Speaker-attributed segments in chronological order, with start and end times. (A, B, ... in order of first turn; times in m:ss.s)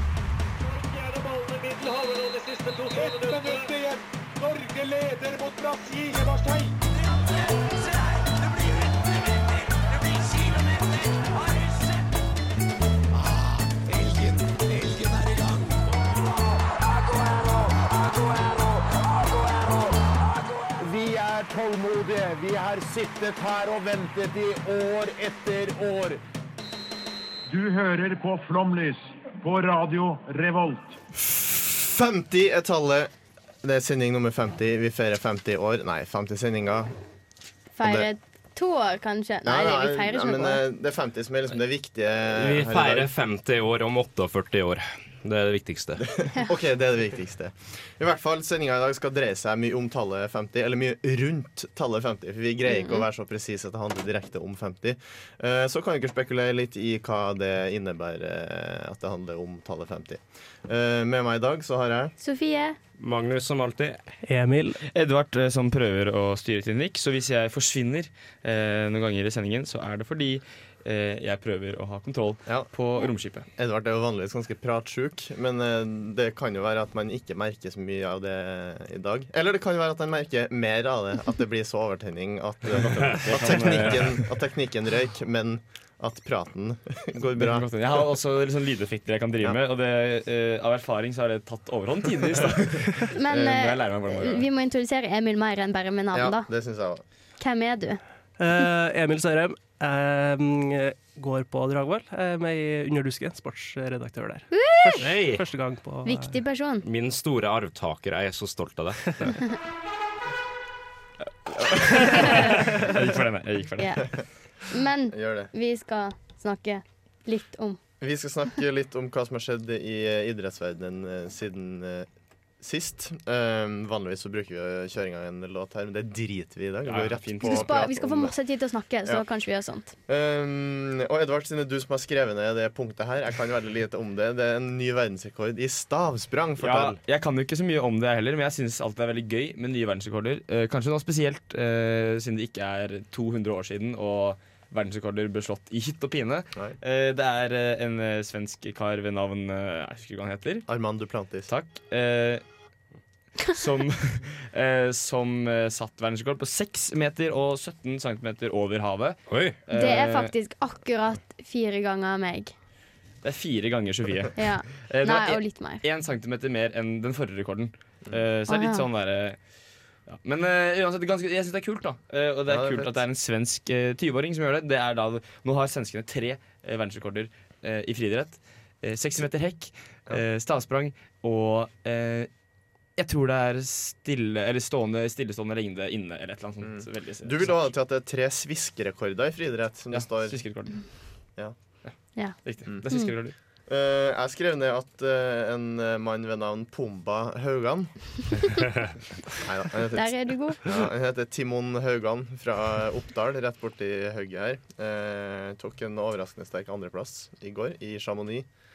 0:00.6-0:06.7 A
0:13.1-0:26.2 B
0:27.5-0:31.0 C
0:31.1-0:33.1 D
0:33.6-0:36.9 D
0:37.7-0:40.6 E
0:37.8-0:38.1 D
0:39.4-0:43.1 D
0:42.3-0:46.0 F
0:46.2-1:02.1 D
0:52.7-0:53.0 E
1:02.2-1:02.8 E
1:03.0-1:04.0 F
1:04.2-1:04.8 G
1:04.9-1:13.5 H
1:13.6-1:27.7 D
1:22.8-1:24.2 H
1:27.4-1:34.4 H
1:33.1-1:36.5 E
1:36.1-1:37.0 D
1:37.4-1:38.0 E
1:38.4-1:46.4 G
1:44.5-1:45.0 E
1:45.0-1:45.4 F
1:46.0-1:46.8 E
1:46.8-1:49.0 F
1:51.5-1:54.0 H
1:53.8-1:54.1 E
1:54.6-1:57.8 E
1:55.1-1:55.5 D
1:58.0-2:02.1 D
2:02.6-2:08.3 D
2:06.8-2:07.7 H
2:07.4-2:09.9 E
2:10.1-2:17.0 D
2:16.6-2:30.7 H
2:30.7-2:31.5 D
2:31.5-2:32.4 H
2:33.5-2:40.3 H
2:39.3-2:39.6 F
2:39.7-2:42.5 E
2:43.2-2:49.4 H
2:44.3-2:45.8 E
2:48.5-2:48.8 E
2:50.1-3:02.3 H
2:52.5-2:53.0 D
3:03.0-3:07.6 H
3:06.6-3:10.4 D
3:09.9-3:10.8 H
3:12.4-3:13.3 H
3:12.8-3:13.1 E
3:13.7-3:17.9 D
3:19.3-3:28.5 D
3:19.9-3:20.6 E